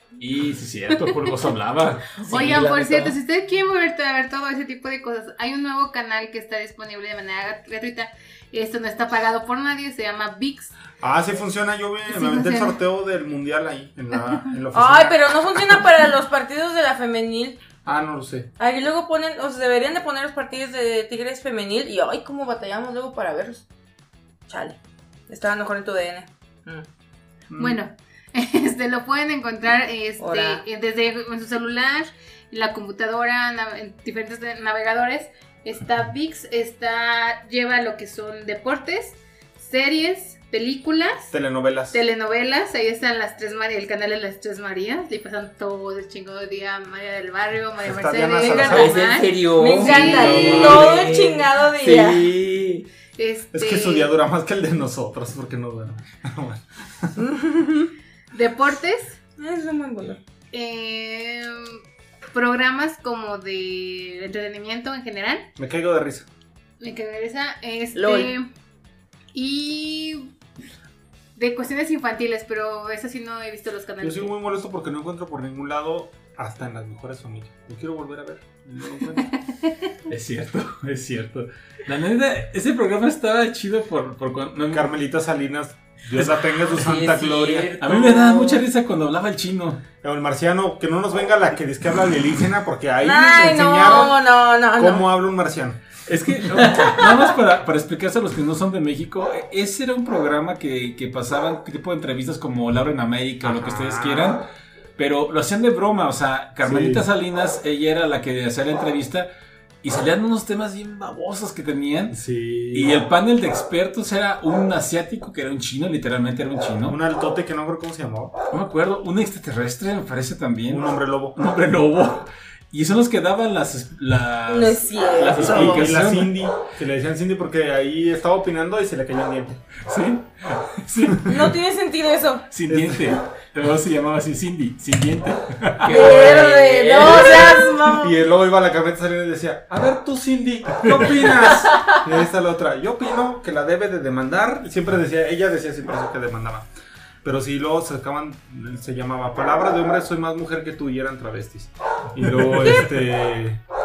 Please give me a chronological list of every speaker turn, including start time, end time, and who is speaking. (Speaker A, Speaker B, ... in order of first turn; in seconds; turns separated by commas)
Speaker A: 0.2-2.3, Speaker B: 2.2-3.2, Speaker C: 2.3-10.7, Speaker D: 11.0-15.2, Speaker C: 12.1-12.8, Speaker E: 14.7-17.6, Speaker D: 17.9-18.5, Speaker E: 18.6-23.6, Speaker E: 24.5-24.8, Speaker E: 25.3-26.9, Speaker D: 27.5-27.8, Speaker C: 27.6-41.3, Speaker E: 30.2-30.6, Speaker D: 41.3-42.0, Speaker C: 41.9-50.4, Speaker D: 47.8-49.0, Speaker B: 48.6-52.9, Speaker E: 49.5-52.3, Speaker D: 50.1-50.8, Speaker C: 53.2-54.1, Speaker D: 53.5-57.1, Speaker E: 57.2-57.9, Speaker C: 58.3-59.2, Speaker E: 59.4-60.2, Speaker C: 60.5-61.8, Speaker C: 62.3-65.5, Speaker D: 65.6-66.3, Speaker C: 66.8-68.5, Speaker E: 68.0-68.3, Speaker C: 69.3-70.3, Speaker C: 71.4-74.3, Speaker D: 74.0-79.3, Speaker A: 80.1-84.9, Speaker D: 84.7-87.8, Speaker A: 86.2-86.8, Speaker B: 86.8-88.6, Speaker A: 87.8-89.8, Speaker D: 90.0-94.2, Speaker E: 93.0-95.1, Speaker D: 94.8-95.8, Speaker A: 96.1-109.3, Speaker B: 96.5-97.1, Speaker D: 103.4-104.4, Speaker D: 106.6-107.0, Speaker A: 109.8-112.2, Speaker D: 112.1-113.0, Speaker A: 112.7-117.0, Speaker D: 116.9-118.3, Speaker A: 118.5-126.5, Speaker D: 120.7-121.4, Speaker E: 124.5-125.9, Speaker D: 125.3-129.6, Speaker A: 129.9-131.6, Speaker E: 131.3-132.5, Speaker A: 132.5-136.1, Speaker D: 132.7-133.2, Speaker B: 135.8-137.7, Speaker E: 135.9-138.2, Speaker D: 137.9-146.7, Speaker A: 140.8-141.3, Speaker B: 141.7-142.0, Speaker D: 147.2-153.6, Speaker A: 152.2-152.9